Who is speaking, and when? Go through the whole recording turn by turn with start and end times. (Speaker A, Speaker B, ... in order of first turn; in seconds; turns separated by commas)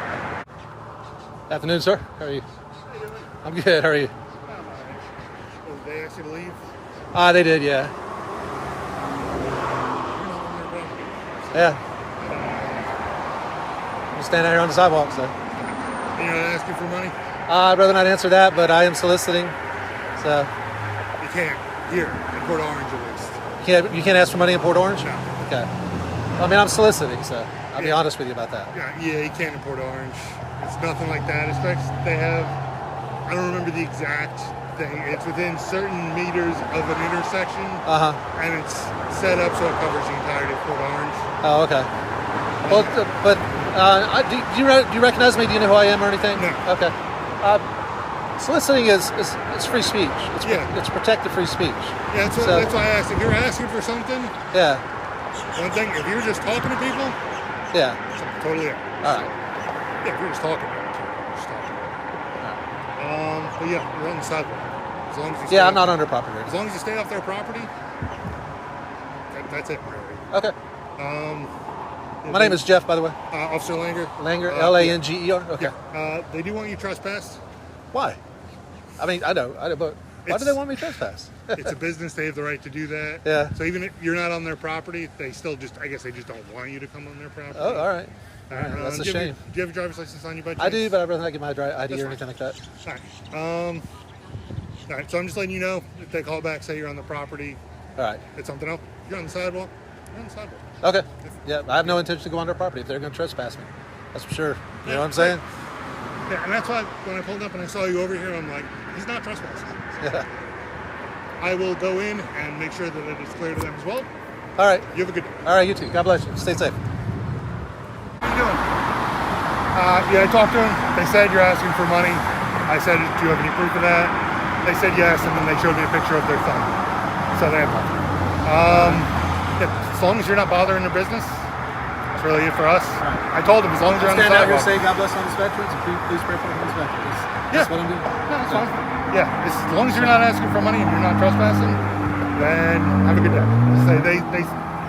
Speaker A: 1.5-2.5, Speaker A: 3.4-4.1, Speaker B: 4.5-6.6, Speaker A: 7.1-7.9, Speaker B: 10.1-13.1, Speaker A: 11.5-11.8, Speaker A: 14.2-15.3, Speaker B: 15.6-17.1, Speaker A: 17.5-19.6, Speaker A: 20.2-20.5, Speaker B: 21.2-23.4, Speaker A: 23.6-25.7, Speaker B: 25.0-25.3, Speaker A: 26.4-28.7, Speaker B: 27.8-28.0, Speaker B: 28.7-32.6, Speaker B: 33.3-41.3, Speaker A: 37.9-38.2, Speaker A: 41.4-41.9, Speaker B: 42.6-43.0, Speaker A: 42.7-47.6, Speaker B: 46.4-46.6, Speaker A: 48.4-52.7, Speaker B: 50.4-50.7, Speaker B: 52.1-54.4, Speaker A: 54.5-54.8, Speaker B: 55.5-57.2, Speaker A: 57.7-58.0, Speaker B: 58.1-59.0, Speaker A: 59.0-59.3, Speaker B: 60.0-62.0, Speaker B: 63.0-67.7, Speaker A: 65.5-66.5, Speaker B: 69.3-70.2, Speaker B: 71.0-71.5, Speaker B: 72.2-72.7, Speaker A: 72.3-73.2, Speaker B: 73.3-75.0, Speaker A: 74.2-75.7, Speaker B: 75.6-77.4, Speaker A: 77.9-78.2, Speaker A: 79.0-81.7, Speaker B: 80.3-80.7, Speaker B: 81.5-87.9, Speaker A: 83.2-83.5, Speaker A: 87.5-89.4, Speaker B: 88.5-91.0, Speaker A: 90.6-92.6, Speaker B: 91.9-92.2, Speaker B: 92.8-93.9, Speaker B: 94.9-97.6, Speaker A: 98.0-98.2, Speaker B: 98.4-100.7, Speaker A: 100.8-105.4, Speaker B: 101.2-102.0, Speaker B: 104.8-105.4, Speaker B: 106.3-110.0, Speaker A: 110.0-110.3, Speaker B: 111.4-114.1, Speaker A: 114.6-114.9, Speaker B: 114.9-115.3, Speaker A: 115.4-116.8, Speaker B: 118.2-118.7, Speaker B: 119.7-126.8, Speaker B: 127.3-127.9, Speaker B: 128.4-131.5, Speaker B: 132.2-134.8, Speaker A: 133.0-133.3, Speaker A: 133.9-138.7, Speaker B: 138.3-141.8, Speaker A: 139.9-140.2, Speaker B: 142.4-144.5